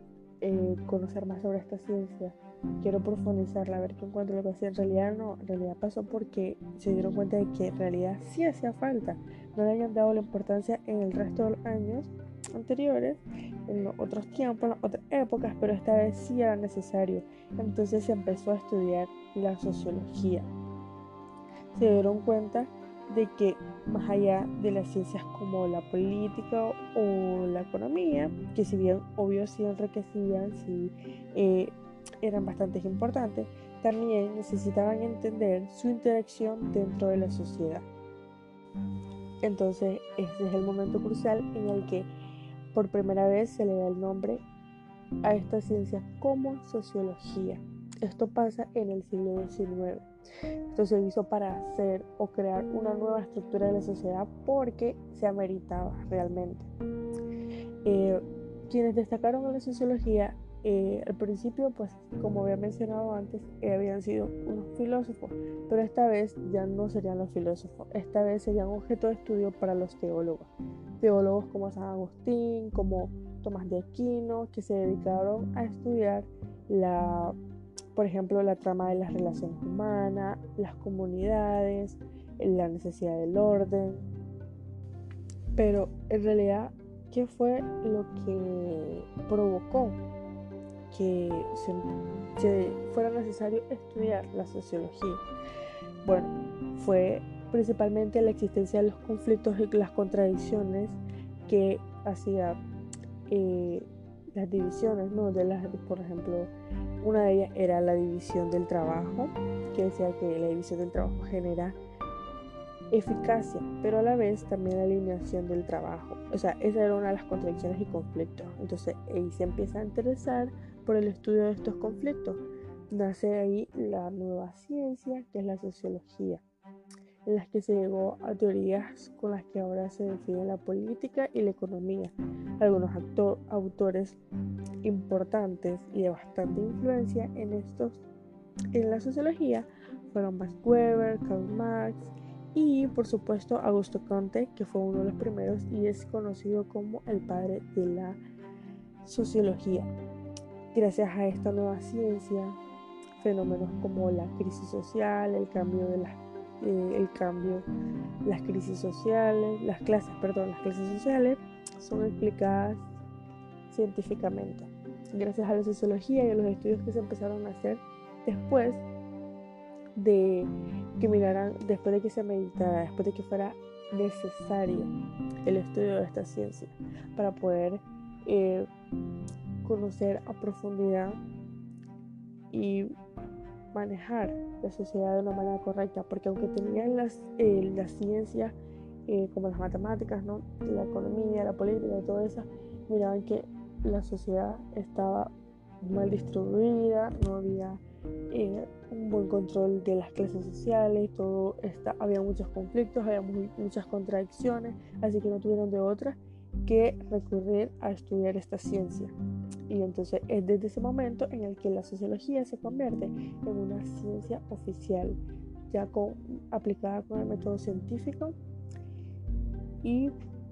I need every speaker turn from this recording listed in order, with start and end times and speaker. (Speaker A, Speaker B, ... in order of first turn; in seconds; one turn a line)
Speaker A: 0.4-20.5
Speaker A: 21.8-37.9
Speaker A: 39.4-42.1
Speaker A: 42.7-44.4
Speaker A: 45.2-50.0
Speaker A: 50.7-56.7
Speaker A: 57.8-77.3
Speaker A: 77.9-84.0
Speaker A: 85.5-90.0
Speaker A: 90.9-95.2
Speaker A: 96.0-102.6
Speaker A: 103.3-111.8
Speaker A: 112.9-126.4
Speaker A: 127.2-134.2
Speaker A: 134.8-138.0
Speaker A: 138.7-148.2
Speaker A: 149.0-149.9
Speaker A: 150.7-152.6
Speaker A: 153.2-157.7
Speaker A: 158.2-162.9
Speaker A: 163.7-168.8
Speaker A: 170.0-174.9
Speaker A: 175.4-178.7
Speaker A: 179.6-181.2
Speaker A: 182.5-182.9
Speaker A: 183.7-188.5
Speaker A: 189.1-195.3
Speaker A: 195.8-209.1
Speaker A: 209.7-215.2
Speaker A: 215.7-218.3
Speaker A: 219.8-220.1